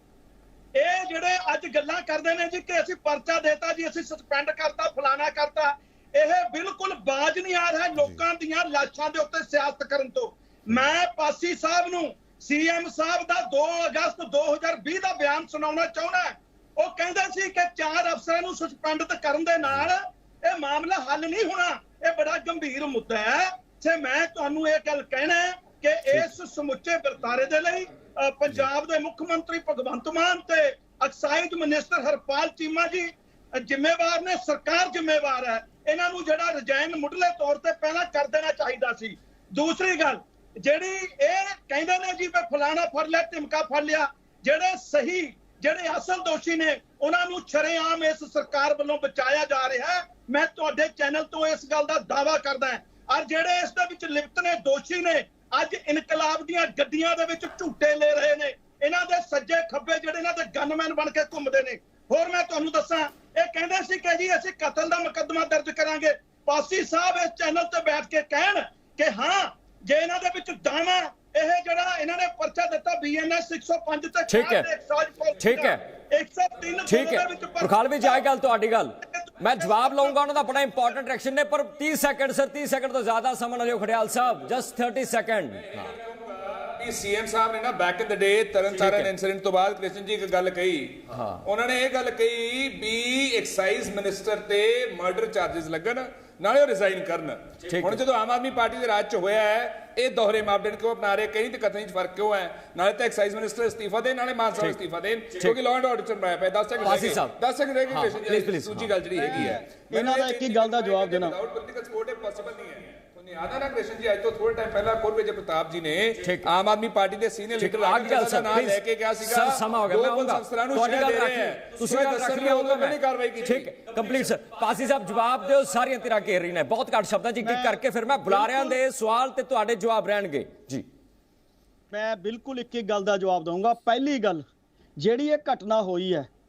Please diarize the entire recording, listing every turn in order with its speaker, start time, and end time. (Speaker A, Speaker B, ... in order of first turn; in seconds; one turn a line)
Speaker A: 0.8-78.2
Speaker B: 74.3-74.7
Speaker B: 75.4-75.8
Speaker B: 76.9-86.0
Speaker A: 79.0-80.7
Speaker C: 85.7-124.1
Speaker B: 88.8-89.1
Speaker B: 91.1-91.4
Speaker B: 97.7-98.0
Speaker B: 106.8-107.4
Speaker B: 107.9-109.6
Speaker D: 109.1-111.4
Speaker B: 116.2-116.5
Speaker B: 117.6-130.9
Speaker D: 127.4-128.8
Speaker D: 131.9-134.4
Speaker D: 135.0-136.3